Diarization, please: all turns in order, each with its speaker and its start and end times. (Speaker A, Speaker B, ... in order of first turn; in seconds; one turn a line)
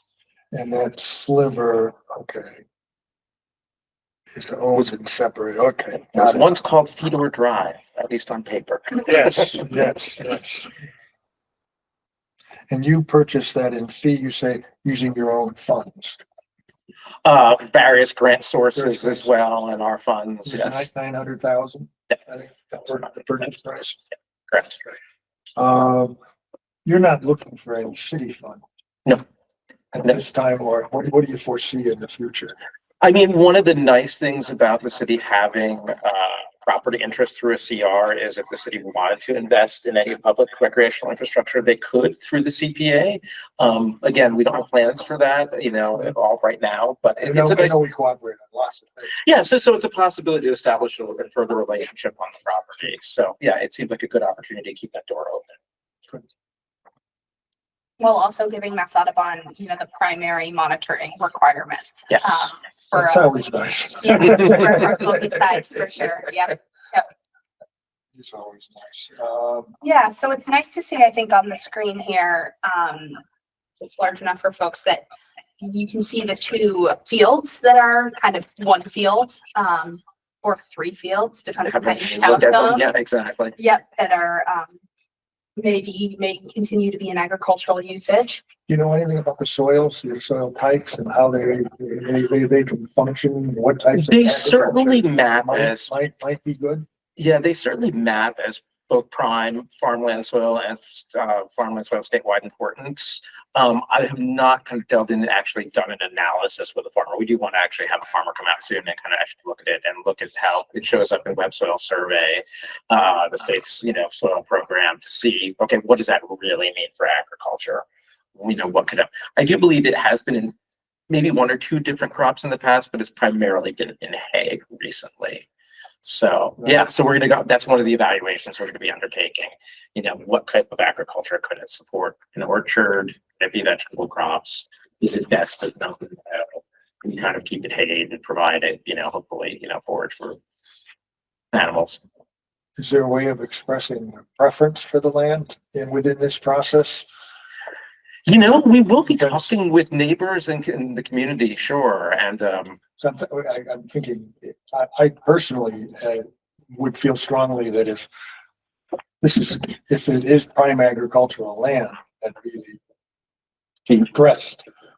Speaker A: 0.5-2.6
Speaker A: 4.3-6.6
Speaker B: 6.1-9.7
Speaker A: 9.1-10.7
Speaker A: 12.7-16.2
Speaker B: 17.2-20.9
Speaker A: 18.8-19.3
Speaker A: 20.4-24.0
Speaker B: 24.5-24.8
Speaker A: 25.6-26.2
Speaker A: 26.9-28.6
Speaker A: 29.9-32.5
Speaker B: 33.0-47.8
Speaker A: 47.2-49.1
Speaker B: 49.2-55.5
Speaker C: 58.0-63.3
Speaker B: 62.1-62.5
Speaker A: 62.9-65.0
Speaker C: 64.0-67.1
Speaker A: 68.2-69.8
Speaker C: 69.8-73.2
Speaker C: 73.8-75.0
Speaker C: 75.6-82.9
Speaker B: 81.7-83.6
Speaker C: 83.6-84.8
Speaker C: 85.6-88.4
Speaker A: 88.7-96.9
Speaker B: 94.0-95.9
Speaker B: 97.2-120.5
Speaker B: 121.1-125.5
Speaker B: 126.0-140.4
Speaker A: 126.6-126.9
Speaker B: 141.5-142.0
Speaker A: 142.8-147.1
Speaker B: 148.3-152.8
Speaker A: 149.1-149.5
Speaker A: 153.0-158.1
Speaker A: 159.2-162.8
Speaker A: 163.9-164.6